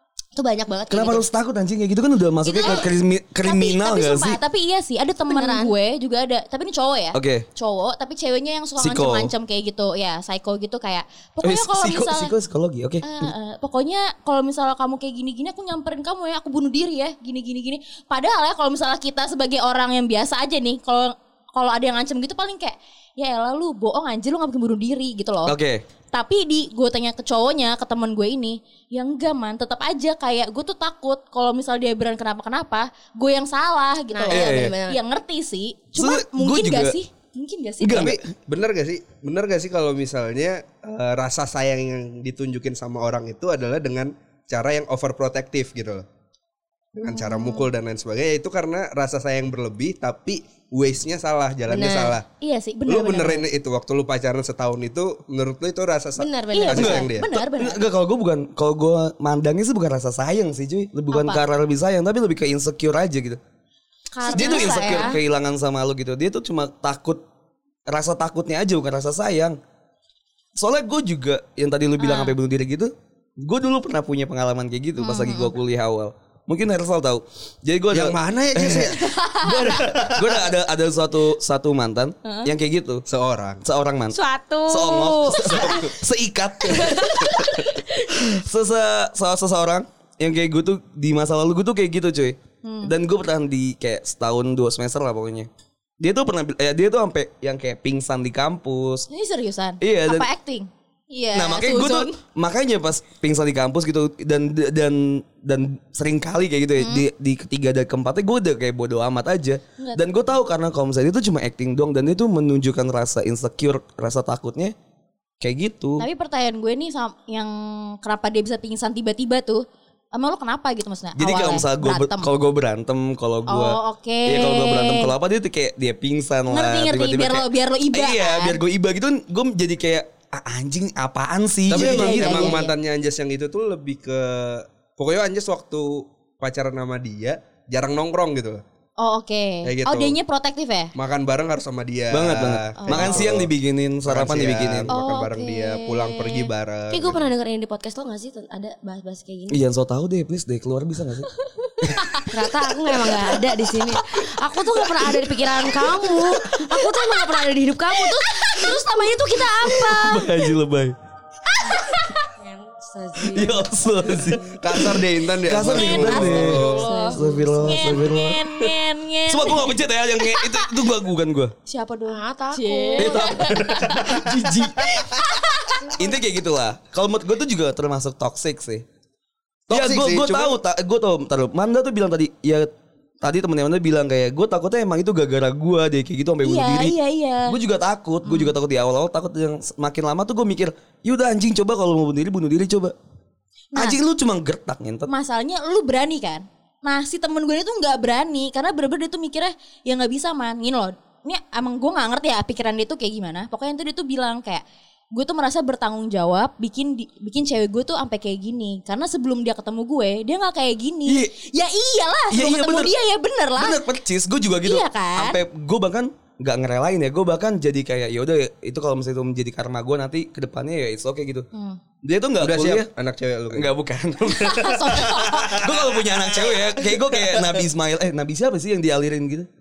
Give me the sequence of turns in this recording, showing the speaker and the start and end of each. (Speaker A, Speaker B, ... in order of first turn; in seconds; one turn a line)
Speaker A: 0.3-1.2
Speaker B: 0.9-4.4
Speaker C: 2.5-2.9
Speaker A: 2.5-2.8
Speaker C: 3.4-12.3
Speaker A: 5.3-5.7
Speaker B: 7.1-7.5
Speaker B: 8.8-9.3
Speaker B: 11.4-13.3
Speaker C: 13.0-25.5
Speaker B: 25.4-25.8
Speaker C: 26.1-38.1
Speaker A: 34.1-35.0
Speaker B: 34.3-34.7
Speaker B: 36.0-37.0
Speaker B: 37.8-38.3
Speaker D: 37.9-46.0
Speaker D: 46.9-52.2
Speaker C: 47.0-47.7
Speaker A: 51.7-52.2
Speaker C: 52.4-53.5
Speaker D: 52.9-57.3
Speaker A: 56.2-57.1
Speaker C: 56.5-57.8
Speaker B: 56.7-63.4
Speaker C: 61.1-61.4
Speaker C: 64.2-65.2
Speaker A: 64.2-65.2
Speaker B: 64.3-67.2
Speaker B: 67.9-69.6
Speaker B: 70.6-83.0
Speaker C: 72.0-72.3
Speaker C: 75.0-75.5
Speaker D: 77.9-79.0
Speaker C: 78.9-79.8
Speaker D: 79.9-80.3
Speaker C: 82.2-82.5
Speaker D: 83.1-83.6
Speaker B: 83.6-99.1
Speaker A: 84.1-85.7
Speaker C: 85.3-85.6
Speaker A: 86.7-87.4
Speaker C: 86.8-87.7
Speaker C: 92.6-92.9
Speaker C: 99.1-102.2
Speaker B: 99.8-100.3
Speaker B: 101.3-114.7
Speaker C: 106.8-107.1
Speaker C: 109.8-110.0
Speaker B: 115.4-116.1
Speaker C: 116.0-122.3
Speaker B: 121.2-132.6
Speaker C: 123.5-125.1
Speaker C: 126.5-128.6
Speaker D: 131.7-138.6
Speaker C: 131.7-132.7
Speaker C: 139.0-140.9
Speaker D: 139.6-140.2
Speaker D: 140.9-143.5
Speaker B: 142.1-144.9
Speaker C: 142.9-143.2
Speaker D: 144.0-147.3
Speaker C: 144.9-146.5
Speaker A: 146.9-149.6
Speaker B: 149.5-151.3
Speaker B: 151.8-152.2
Speaker A: 152.2-160.4
Speaker B: 155.0-156.6
Speaker B: 159.6-160.9
Speaker C: 161.6-162.2
Speaker A: 161.7-164.5
Speaker B: 163.2-168.7
Speaker D: 164.6-166.8
Speaker C: 165.6-170.9
Speaker A: 166.3-168.0
Speaker B: 169.3-171.5
Speaker C: 171.7-174.2
Speaker A: 172.1-173.4
Speaker B: 173.0-175.2
Speaker D: 173.5-174.2
Speaker C: 175.2-175.8
Speaker A: 175.7-176.1
Speaker B: 175.9-178.8
Speaker D: 179.7-180.6
Speaker B: 179.7-182.7
Speaker B: 183.2-192.9
Speaker C: 186.4-187.6
Speaker C: 188.2-188.5
Speaker C: 193.7-194.0
Speaker B: 193.7-195.1
Speaker C: 195.1-204.6
Speaker C: 205.1-213.8
Speaker B: 211.1-211.3
Speaker B: 212.3-212.9
Speaker B: 213.6-221.5
Speaker C: 214.6-215.4
Speaker C: 221.5-221.8
Speaker B: 222.0-222.9
Speaker D: 222.4-223.7
Speaker B: 223.5-229.5
Speaker C: 224.3-225.8
Speaker D: 224.9-227.6